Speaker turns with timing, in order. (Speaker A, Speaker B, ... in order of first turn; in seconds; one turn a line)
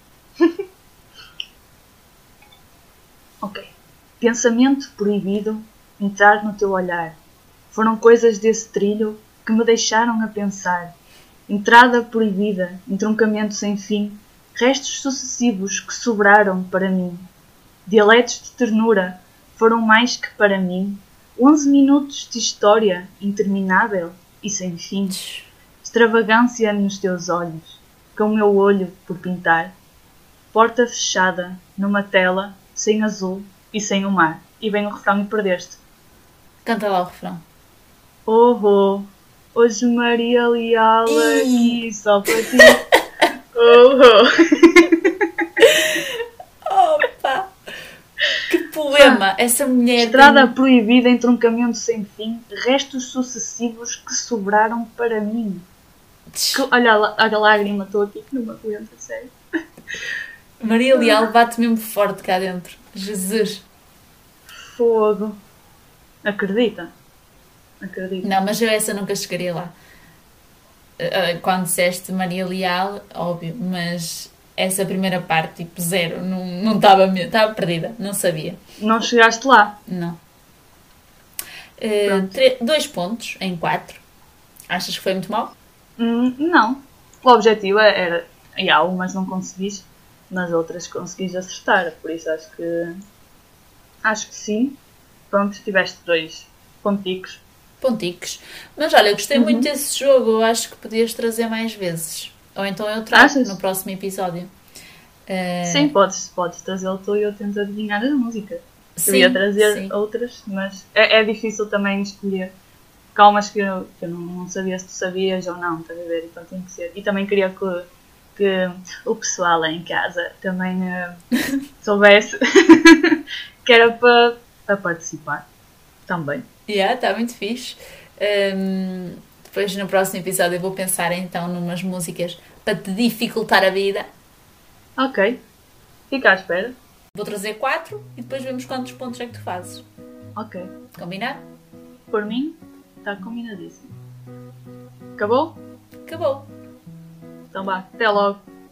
Speaker A: 3.4-7.2
Speaker A: 7.7-10.9
Speaker A: 11.5-17.3
Speaker A: 17.9-25.2
Speaker B: 25.1-25.5
Speaker A: 25.8-29.7
Speaker A: 30.5-35.8
Speaker B: 36.6-37.4
Speaker A: 38.3-42.8
Speaker B: 41.1-41.8
Speaker B: 42.4-42.8
Speaker A: 43.5-45.3
Speaker B: 45.6-47.5
Speaker B: 48.5-50.5
Speaker A: 50.0-55.6
Speaker B: 56.4-56.7
Speaker A: 56.5-59.3
Speaker B: 60.6-63.7
Speaker A: 60.9-61.3
Speaker A: 64.6-65.4
Speaker A: 66.2-66.9
Speaker A: 67.8-68.3
Speaker B: 68.2-69.7
Speaker B: 71.0-78.6
Speaker A: 78.8-79.8
Speaker B: 79.9-80.2
Speaker B: 81.8-84.0
Speaker A: 82.1-82.3
Speaker B: 84.7-85.5
Speaker A: 86.0-93.0
Speaker A: 94.0-94.8
Speaker A: 95.3-97.4
Speaker B: 97.8-104.5
Speaker A: 99.3-99.7
Speaker A: 103.1-103.6
Speaker B: 105.3-105.9
Speaker A: 105.7-112.5
Speaker B: 109.0-109.9
Speaker A: 113.2-121.2
Speaker A: 121.8-125.5
Speaker A: 126.1-126.5
Speaker B: 126.7-134.1
Speaker A: 135.0-135.4
Speaker A: 136.1-136.8
Speaker B: 137.2-139.8
Speaker A: 140.4-140.7
Speaker B: 140.9-141.4
Speaker A: 142.1-143.9
Speaker A: 145.2-145.6
Speaker B: 146.1-146.5
Speaker A: 147.5-148.4